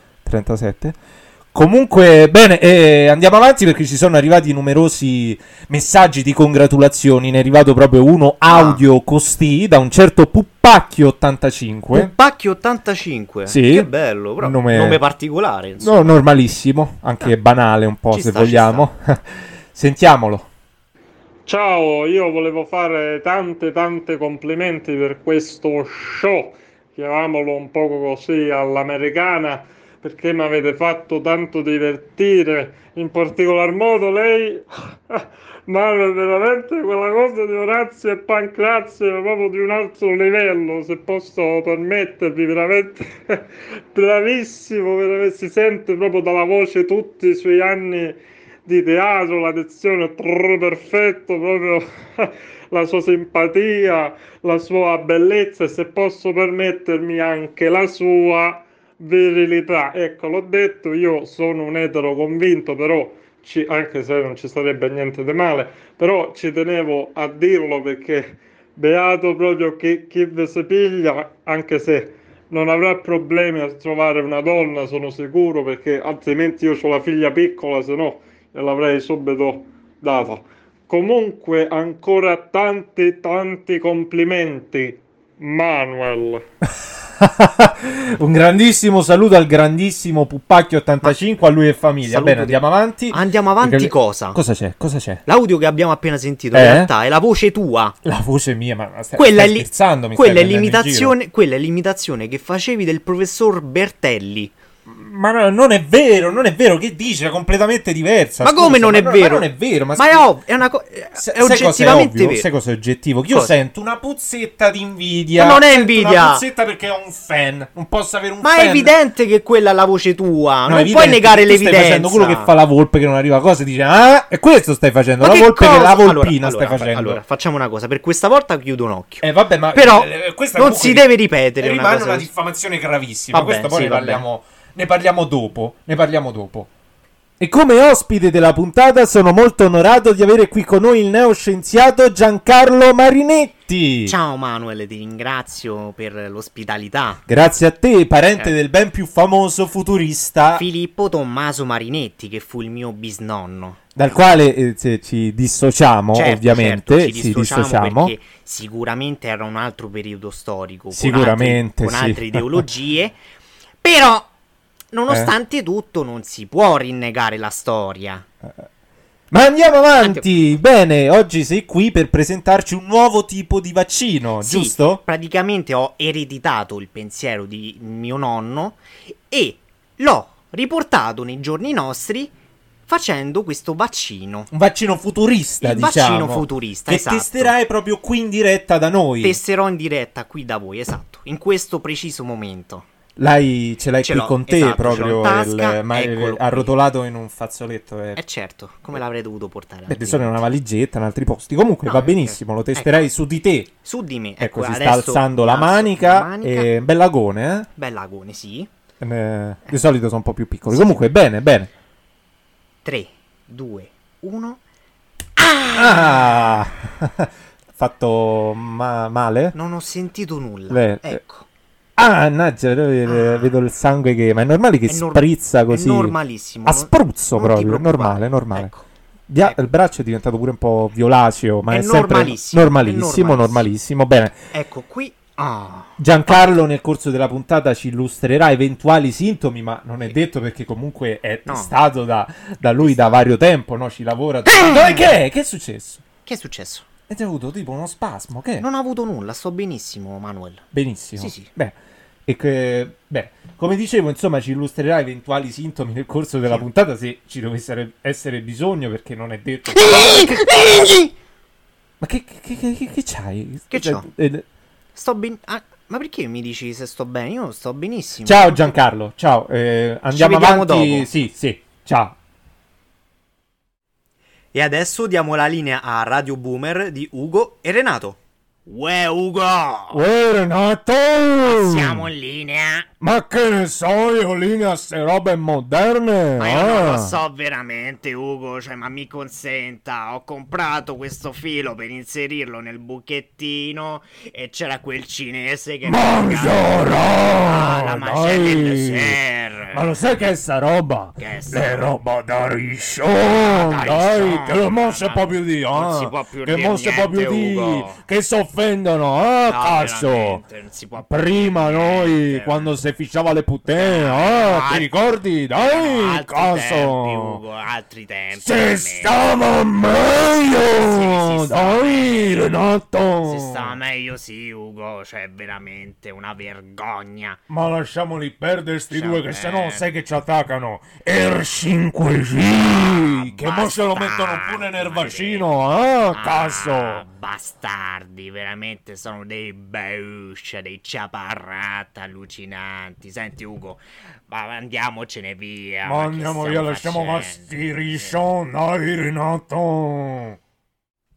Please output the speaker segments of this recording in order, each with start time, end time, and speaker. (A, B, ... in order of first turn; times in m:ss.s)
0:00.2-0:01.0 A
0:01.5-0:12.1 A
0:08.5-0:08.8 B
0:11.9-0:16.2 B
0:13.5-0:15.0 A
0:15.8-0:20.5 A
0:18.1-0:18.9 B
0:21.4-1:26.4 C
1:27.2-1:35.2 A
1:32.0-1:34.4 B
1:35.2-1:38.0 B
1:36.5-1:36.9 A
1:38.0-1:41.1 A
1:39.2-1:44.5 B
1:44.8-1:50.3 A
1:48.4-1:52.4 B
1:51.1-1:58.9 A
1:53.3-1:53.5 B
1:55.3-1:56.4 B
1:58.4-2:02.5 B
2:00.7-2:07.2 A
2:05.2-2:12.3 B
2:09.2-2:16.7 A
2:13.3-2:14.2 B
2:17.4-2:24.1 A
2:24.0-2:27.2 B
2:27.3-2:30.6 A
2:30.6-2:33.8 B
2:33.9-2:38.1 A
2:36.1-2:43.1 B
2:40.9-2:42.6 A
2:43.8-2:44.3 B
2:44.9-2:48.2 B
2:45.1-2:45.3 A
2:49.3-2:55.0 A
2:54.4-3:02.3 B
3:02.9-3:04.5 B
3:04.5-3:09.4 A
3:05.6-3:07.5 B
3:09.2-3:12.9 B
3:13.2-3:18.2 A
3:14.0-3:16.7 B
3:18.2-3:20.4 B
3:19.9-3:23.7 A
3:21.8-3:23.1 B
3:23.8-3:26.7 B
3:24.4-3:27.7 A
3:27.8-3:28.7 B
3:29.0-3:31.7 A
3:30.7-3:31.0 B
3:32.8-3:34.6 B
3:35.4-3:36.6 B
3:35.7-3:39.5 A
3:39.5-3:41.4 B
3:40.7-3:41.2 A
3:42.0-3:46.1 A
3:43.0-3:43.6 B
3:44.9-3:48.8 B
3:46.6-3:48.7 A
3:49.3-3:54.4 A
3:51.7-3:53.7 B
3:54.5-3:56.6 B
3:56.0-4:06.0 A
4:01.4-4:01.7 B
4:02.8-4:03.2 B
4:04.5-4:05.2 B
4:06.2-4:06.8 B
4:07.1-4:08.6 A
4:08.6-4:10.6 B
4:10.7-4:11.8 A
4:11.2-4:11.5 B
4:12.3-4:20.8 A
4:19.7-4:21.1 B
4:22.0-4:24.4 A
4:23.7-4:24.1 B
4:24.9-4:28.7 B
4:28.2-4:32.1 A
4:30.1-4:31.1 B
4:34.5-4:40.0 B
4:39.9-4:42.1 A
4:41.4-4:42.9 B
4:43.0-4:47.2 A
4:46.4-5:00.0 B
4:55.8-4:59.2 A
4:59.7-5:10.4 A
5:01.2-5:01.9 B
5:03.1-5:08.0 B
5:09.4-5:12.8 B
5:11.0-5:17.4 A
5:13.6-5:14.9 B
5:15.5-5:22.5 B
5:18.3-5:23.8 A
5:23.2-5:27.4 B
5:27.5-5:37.0 A
5:28.9-5:29.9 B
5:32.6-5:35.5 B
5:36.1-5:48.2 B
5:45.8-5:50.4 A